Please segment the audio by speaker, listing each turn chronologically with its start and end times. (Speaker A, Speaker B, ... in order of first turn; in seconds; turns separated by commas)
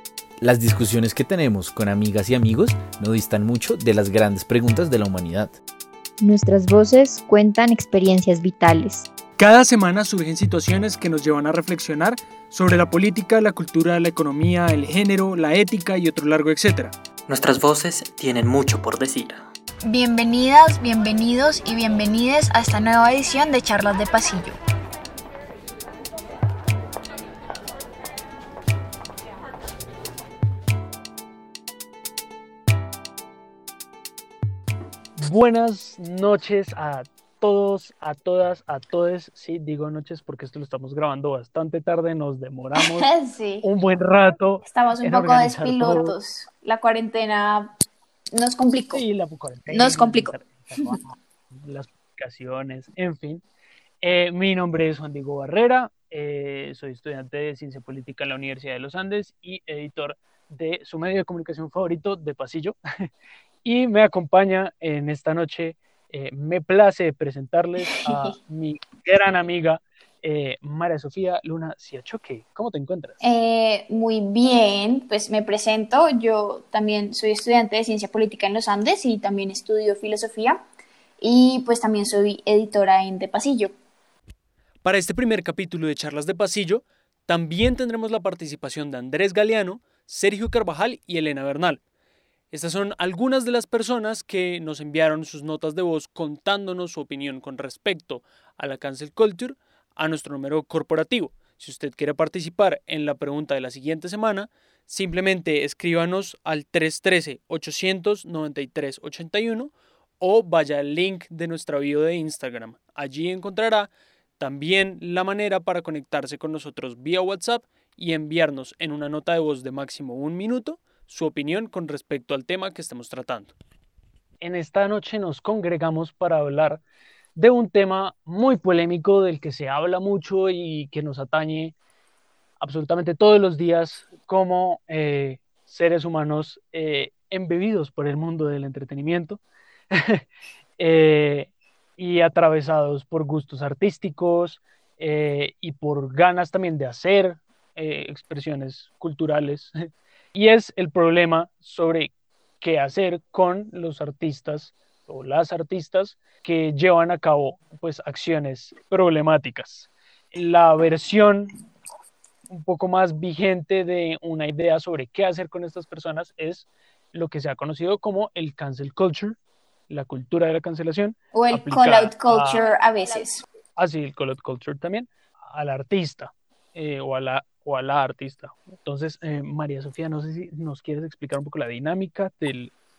Speaker A: 0.4-5.5, Speaker B: 6.2-9.1, Speaker C: 9.4-16.9, Speaker D: 17.3-19.4, Speaker E: 19.8-24.6, Speaker C: 35.2-43.1, Speaker E: 42.8-43.6, Speaker C: 43.6-46.2, Speaker E: 44.6-47.7, Speaker E: 48.3-49.0, Speaker C: 48.9-53.4, Speaker E: 49.7-50.3, Speaker C: 54.0-63.1, Speaker C: 63.6-73.2, Speaker E: 67.9-68.3, Speaker E: 73.2-80.6, Speaker E: 81.2-83.7, Speaker C: 84.8-91.8, Speaker C: 92.5-123.5, Speaker C: 124.4-126.8, Speaker C: 127.3-131.7, Speaker C: 132.6-139.4, Speaker C: 139.9-140.2, Speaker C: 140.8-149.7, Speaker C: 150.3-161.5, Speaker C: 162.5-169.3, Speaker C: 169.9-172.6, Speaker E: 171.3-173.4, Speaker C: 173.8-182.7